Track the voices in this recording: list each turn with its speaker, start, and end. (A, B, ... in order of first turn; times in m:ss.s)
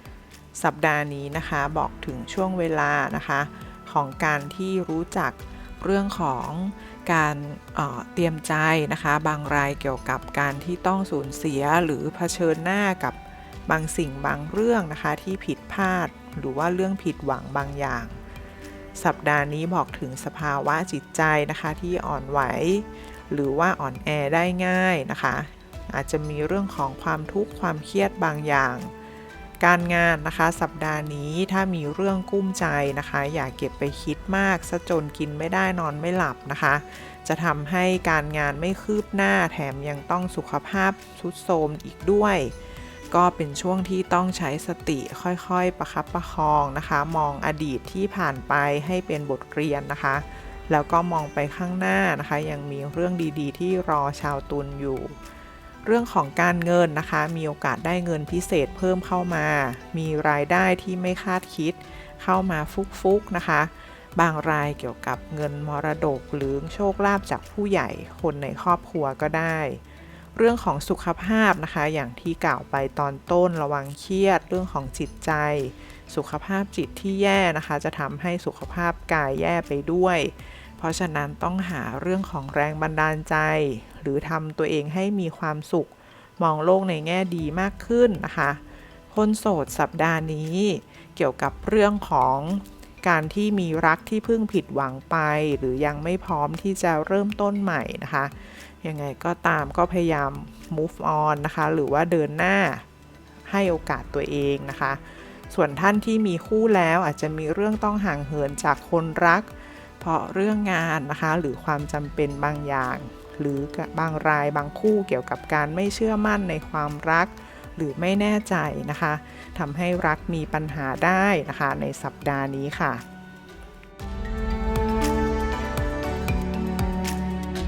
0:00.6-0:18.2 A
0:19.0-0:28.9 A
0:29.6-0:42.6 A
0:43.1-0:55.2 A
0:55.8-1:09.8 A
1:10.4-1:42.8 A
1:43.5-2:03.0 A